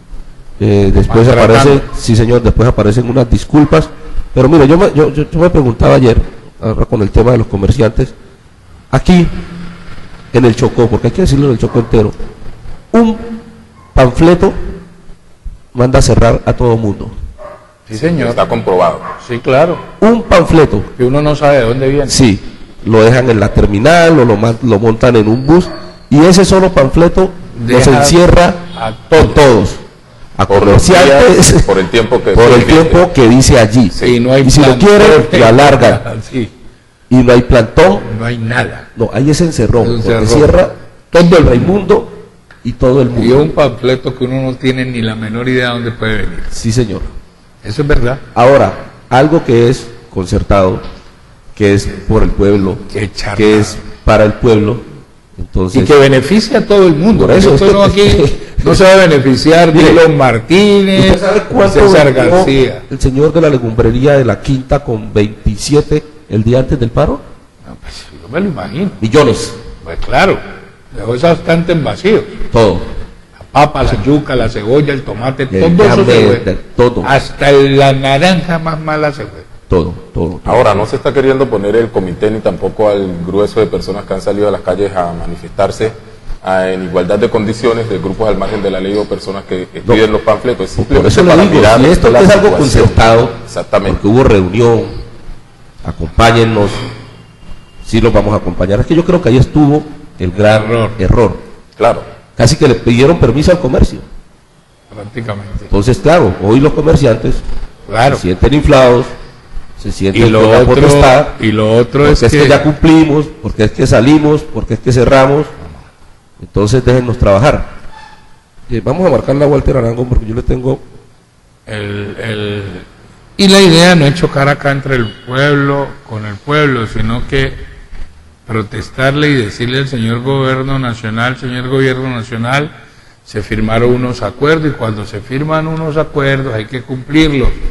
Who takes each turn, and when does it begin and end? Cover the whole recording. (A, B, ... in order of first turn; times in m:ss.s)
0:00.6-0:08.1 A
0:01.0-0:01.8 B
0:08.9-0:09.4 A
0:10.3-0:12.2 A
0:12.9-0:13.4 A
0:13.9-0:14.6 A
0:15.7-0:17.1 A
0:17.9-0:18.4 B
0:17.9-0:19.1 C
0:19.2-0:19.8 B
0:20.0-0:20.9 A
0:21.0-0:22.2 B
0:22.0-0:29.8 A
0:27.5-0:29.4 B
0:30.3-0:31.7 A
0:30.5-0:33.1 C
0:32.3-0:36.0 A
0:34.0-0:36.5 B
0:37.1-0:38.1 A
0:38.0-0:38.9 B
0:38.9-0:43.6 A
0:39.8-0:40.6 B
0:43.2-0:46.5 B
0:46.5-0:47.1 A
0:47.6-0:48.2 B
0:48.3-0:50.8 A
0:51.5-0:54.8 A
0:52.9-0:53.8 B
0:55.4-0:55.9 A
0:55.7-1:02.8 B
0:57.1-0:58.8 A
0:59.7-1:00.1 A
1:00.9-1:07.2 A
1:07.6-1:09.0 B
1:09.0-1:09.6 A
1:09.8-1:10.4 B
1:10.9-1:12.4 B
1:12.5-1:12.9 A
1:13.5-1:16.5 B
1:15.5-1:17.1 A
1:17.0-1:19.5 B
1:19.7-1:20.9 A
1:20.4-1:34.0 C
1:30.8-1:35.0 A
1:35.8-1:36.8 A
1:37.8-1:41.4 A
1:40.4-1:41.0 B
1:41.8-1:42.0 C
1:42.4-1:44.0 A
1:44.9-1:45.7 B
1:45.7-1:47.4 A
1:47.9-1:48.2 B
1:48.1-1:49.1 A
1:49.8-1:51.4 A
1:50.1-1:52.7 B
1:52.0-1:55.5 A
1:56.4-1:57.7 A
1:58.7-2:00.8 A
2:01.6-2:07.6 B
2:08.4-2:12.7 B
2:13.2-2:17.5 B